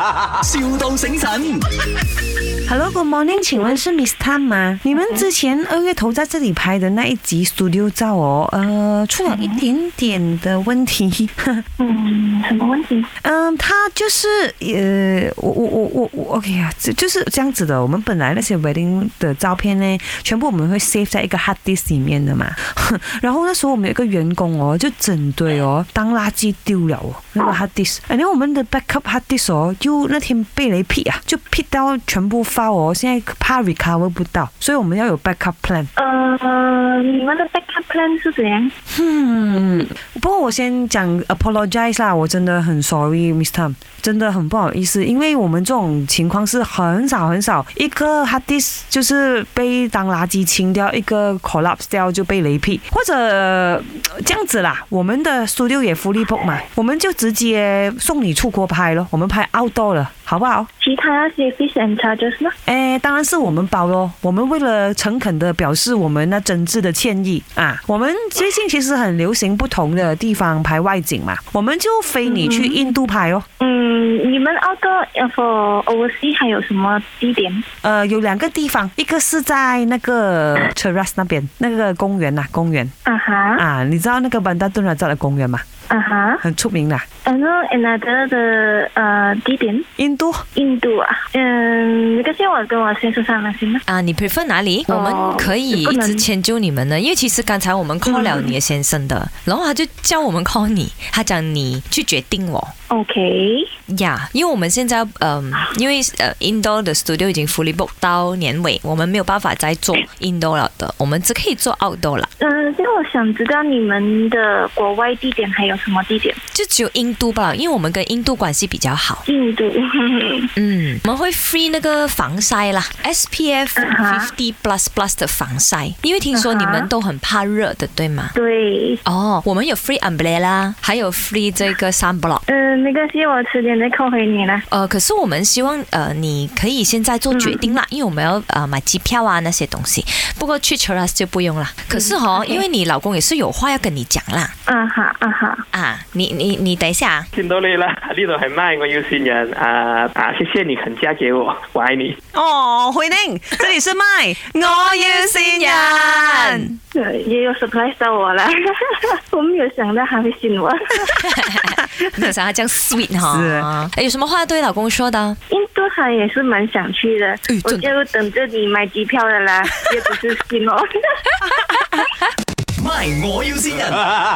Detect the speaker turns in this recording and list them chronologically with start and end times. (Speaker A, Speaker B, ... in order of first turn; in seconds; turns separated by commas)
Speaker A: 0.3-1.6, Speaker B: 2.7-11.6, Speaker C: 9.3-9.6, Speaker C: 11.8-13.1, Speaker B: 13.2-35.9, Speaker C: 36.0-38.7, Speaker B: 38.9-60.7, Speaker C: 60.8-62.5, Speaker B: 62.7-73.5, Speaker C: 72.2-72.8, Speaker C: 73.6-77.6, Speaker B: 77.8-82.9, Speaker C: 83.0-83.6, Speaker B: 83.6-85.6, Speaker C: 85.9-86.4, Speaker B: 86.4-87.0, Speaker C: 87.2-89.9, Speaker B: 90.0-90.5, Speaker C: 90.5-93.8, Speaker D: 93.9-102.7, Speaker C: 94.9-96.2, Speaker C: 98.0-98.5, Speaker C: 102.9-103.7, Speaker D: 103.9-112.3, Speaker C: 112.4-116.4, Speaker D: 116.5-119.2, Speaker C: 119.2-120.5, Speaker D: 120.5-128.3, Speaker C: 123.8-124.3, Speaker C: 126.3-126.9, Speaker C: 128.3-129.0, Speaker D: 129.0-132.4, Speaker C: 132.5-134.6, Speaker D: 134.7-144.5, Speaker C: 137.3-137.7, Speaker C: 141.9-142.6, Speaker C: 144.7-145.6, Speaker D: 145.7-147.3, Speaker E: 147.3-152.2, Speaker B: 152.3-156.8, Speaker D: 155.1-156.7, Speaker C: 156.9-161.1, Speaker D: 161.1-165.4, Speaker B: 163.3-163.7, Speaker C: 165.5-170.8, Speaker D: 167.5-167.9, Speaker A: 172.8-174.1